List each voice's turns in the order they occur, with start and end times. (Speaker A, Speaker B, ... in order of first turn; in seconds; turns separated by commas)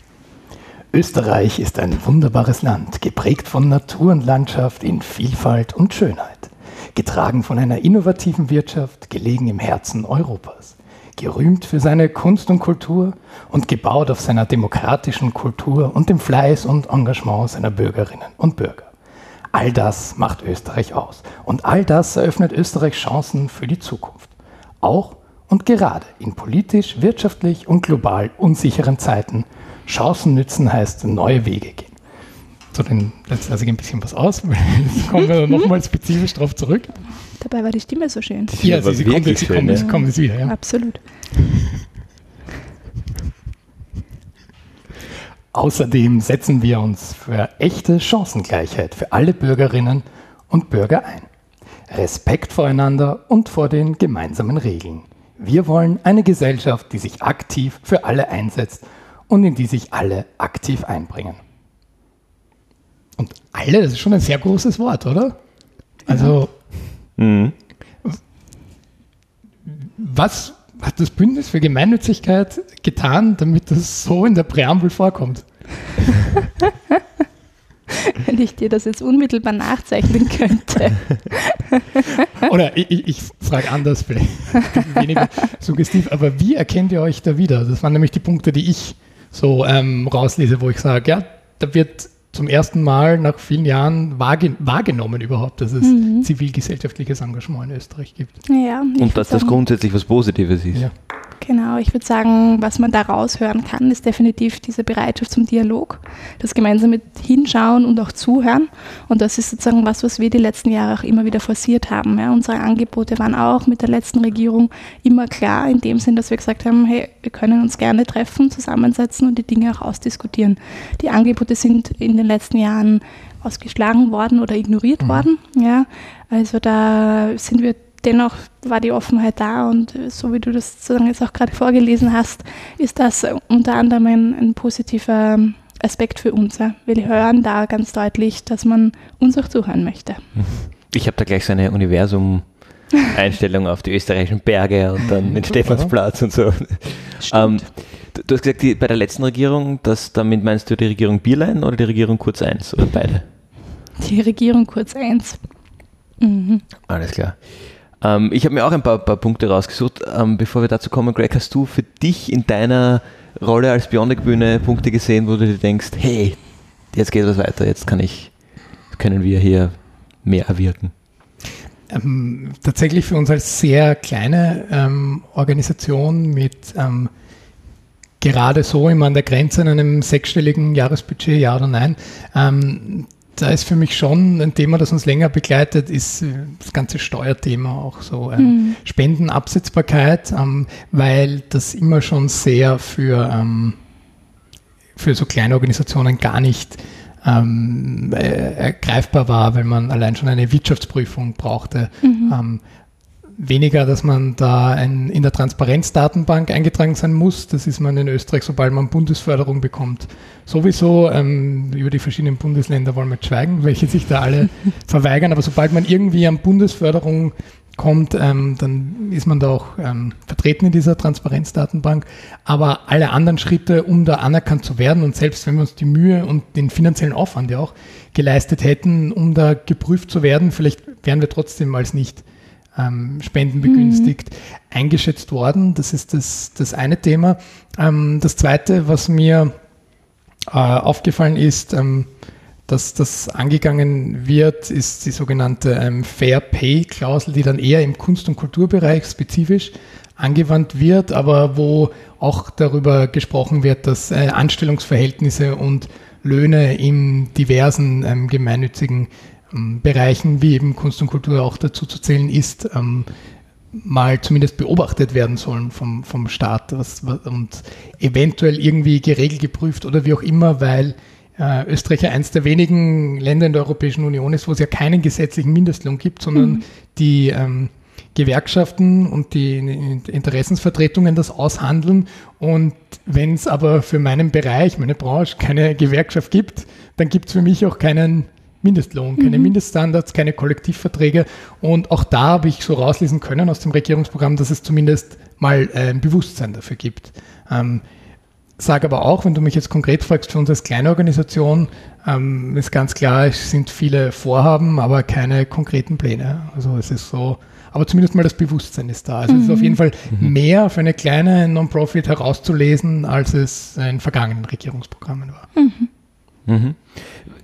Speaker A: 0.9-18.9, Speaker A: 19.5-31.9, Speaker A: 32.7-37.0, Speaker B: 37.4-38.5, Speaker C: 38.5-39.9, Speaker A: 38.6-40.6, Speaker B: 39.8-41.0, Speaker A: 41.4-41.8, Speaker A: 45.5-51.3, Speaker A: 51.9-61.4, Speaker A: 63.2-65.4, Speaker A: 66.0-66.5, Speaker B: 66.1-66.3, Speaker C: 67.2-67.5, Speaker A: 69.7-76.1, Speaker B: 78.2-82.0, Speaker A: 82.4-98.3, Speaker B: 95.8-96.3, Speaker B: 98.5-99.6, Speaker C: 99.0-100.9, Speaker B: 101.4-140.2, Speaker C: 140.3-153.2, Speaker A: 145.0-145.9, Speaker B: 147.2-147.7, Speaker B: 154.0-155.4, Speaker B: 156.2-156.6, Speaker C: 156.9-168.3, Speaker C: 168.9-170.9, Speaker A: 171.9-177.1, Speaker A: 178.2-193.8, Speaker B: 188.4-188.8, Speaker A: 195.0-202.6, Speaker B: 202.0-202.3, Speaker A: 203.4-232.2, Speaker A: 232.7-239.5, Speaker B: 233.7-234.1, Speaker A: 240.5-242.1, Speaker A: 242.7-263.1, Speaker A: 263.7-297.8, Speaker B: 276.3-276.6, Speaker B: 289.2-289.5, Speaker A: 298.6-315.5, Speaker B: 309.3-309.8, Speaker B: 315.5-315.9, Speaker C: 316.5-317.2